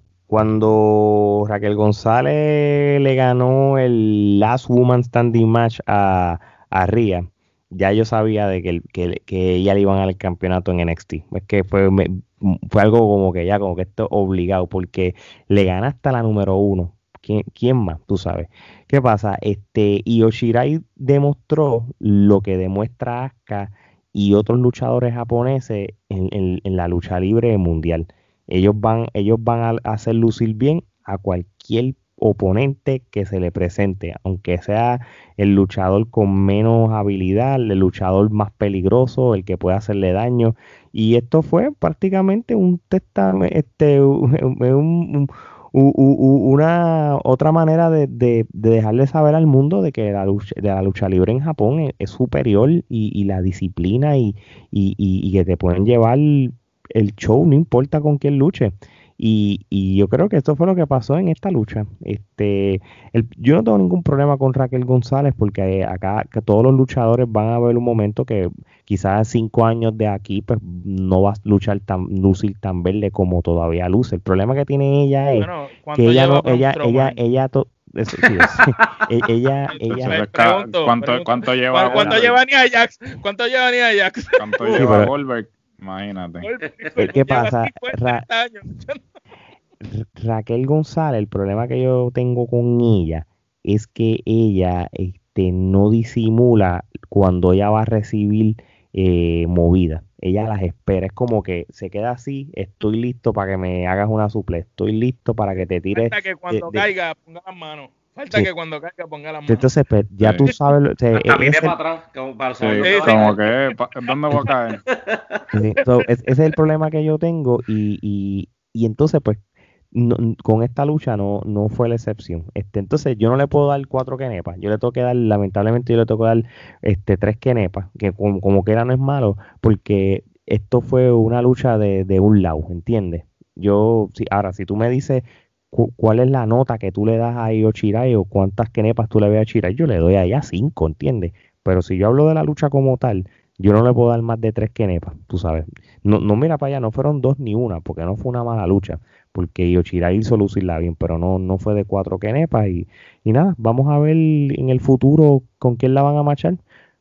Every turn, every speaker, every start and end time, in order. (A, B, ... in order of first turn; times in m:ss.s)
0:00.3-1:20.2 A
1:15.4-1:17.2 B
1:18.2-1:18.9 C
1:19.7-1:25.0 B
1:19.9-1:22.4 D
1:21.9-1:22.2 A
1:24.4-1:26.5 D
1:24.7-1:25.1 A
1:26.4-1:29.0 B
1:27.0-1:28.2 A
1:29.8-1:46.9 A
1:45.9-1:49.7 B
1:49.5-1:51.8 A
1:50.2-1:50.5 D
1:51.2-1:53.6 C
1:52.6-1:54.8 D
1:52.8-1:53.4 B
1:54.4-1:55.4 C
1:55.5-1:59.4 A
1:59.9-2:36.6 A